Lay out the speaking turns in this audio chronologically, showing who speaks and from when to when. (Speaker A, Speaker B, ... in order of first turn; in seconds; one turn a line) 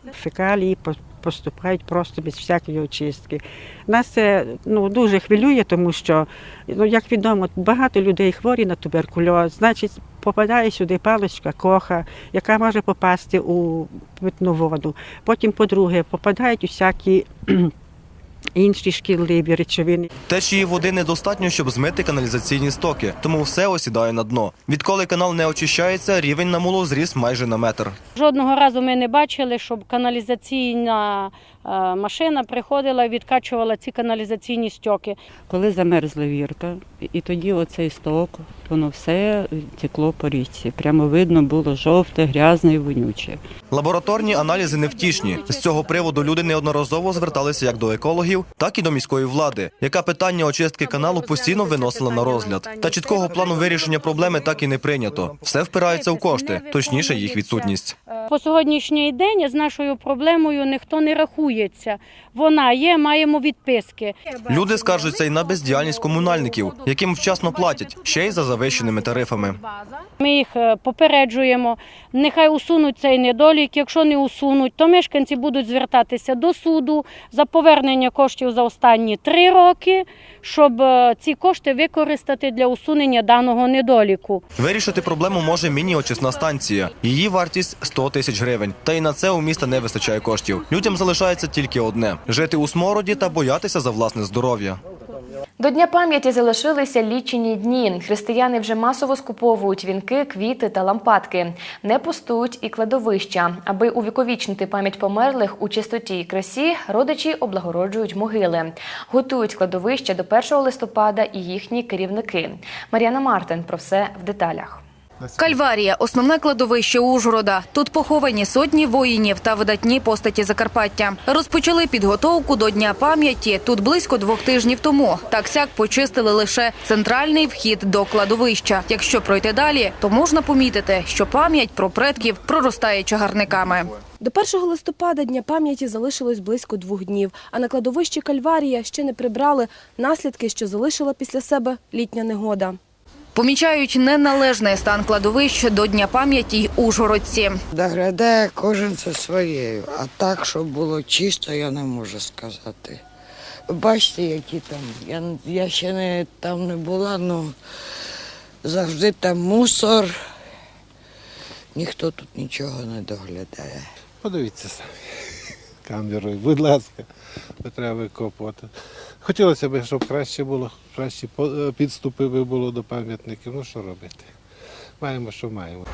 Speaker A: 0.2-17.7
Speaker A: 18.6-20.1
Speaker B: 20.3-27.9
Speaker C: 28.1-35.2
Speaker B: 43.7-57.9
Speaker C: 51.1-53.1
Speaker C: 55.9-65.0
Speaker B: 64.5-69.6
Speaker C: 70.2-84.4
Speaker B: 84.6-94.8
Speaker D: 95.6-114.8
Speaker E: 115.4-133.9
Speaker F: 134.2-142.8
Speaker E: 143.3-147.6
Speaker G: 147.7-153.0
Speaker G: 153.7-157.5
Speaker G: 158.6-160.1
Speaker G: 161.8-163.8
Speaker H: 164.2-165.1
Speaker H: 165.8-167.0
Speaker H: 167.6-168.7
Speaker H: 169.2-174.2
Speaker H: 175.0-175.8